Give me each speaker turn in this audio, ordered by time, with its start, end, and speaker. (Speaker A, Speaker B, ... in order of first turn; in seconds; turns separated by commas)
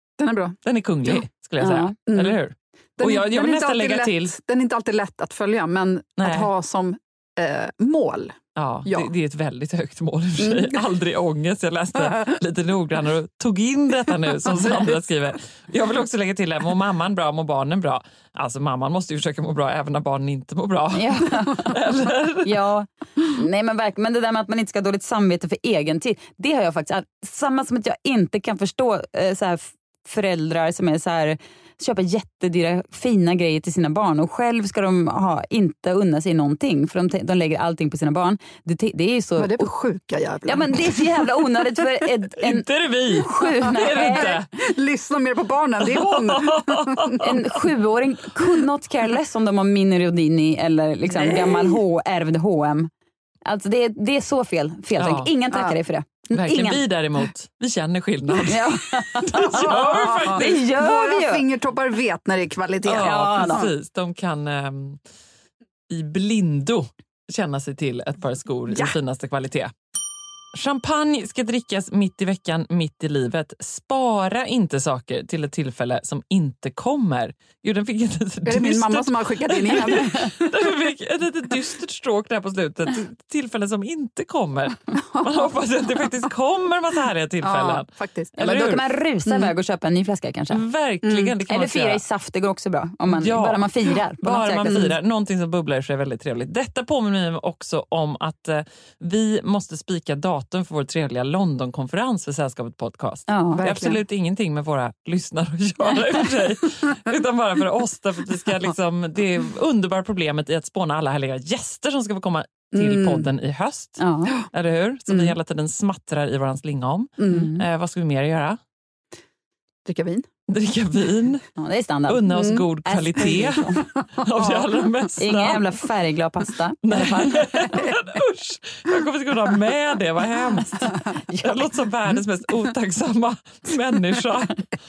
Speaker A: 0.2-1.2, Speaker B: 0.6-4.3, Speaker C: 1.6-1.9, Speaker A: 2.1-2.4, Speaker A: 3.0-9.1, Speaker B: 6.2-6.5, Speaker B: 8.6-22.6, Speaker A: 10.4-10.8, Speaker A: 14.4-15.0, Speaker C: 20.9-21.8, Speaker C: 22.4-39.7, Speaker A: 39.4-41.3, Speaker C: 40.5-44.3, Speaker B: 42.4-44.5, Speaker A: 43.4-47.2, Speaker B: 45.8-47.4, Speaker C: 47.2-52.9, Speaker A: 51.1-51.8, Speaker C: 53.5-56.8, Speaker B: 55.0-55.3, Speaker B: 56.3-58.6, Speaker C: 58.5-61.4, Speaker A: 59.2-63.7, Speaker B: 59.4-60.6, Speaker B: 62.9-65.0, Speaker C: 63.0-63.7, Speaker B: 65.9-69.7, Speaker B: 70.5-88.8, Speaker A: 78.5-80.5, Speaker A: 85.1-85.5, Speaker A: 87.4-89.5, Speaker C: 88.4-90.6, Speaker B: 90.5-92.0, Speaker A: 91.0-91.3, Speaker C: 91.5-94.9, Speaker B: 93.1-93.7, Speaker B: 94.2-114.0, Speaker C: 103.3-103.6, Speaker A: 103.6-104.0, Speaker A: 112.8-113.3, Speaker C: 114.0-114.3, Speaker B: 114.5-118.6, Speaker A: 115.1-115.3, Speaker A: 117.2-117.5, Speaker C: 117.3-117.6, Speaker A: 119.9-120.3, Speaker B: 120.5-121.4, Speaker C: 121.6-123.8, Speaker B: 122.1-125.7, Speaker A: 122.3-122.6, Speaker A: 124.0-125.1, Speaker C: 125.2-127.4, Speaker B: 126.8-134.7, Speaker A: 127.6-127.9, Speaker C: 131.2-131.7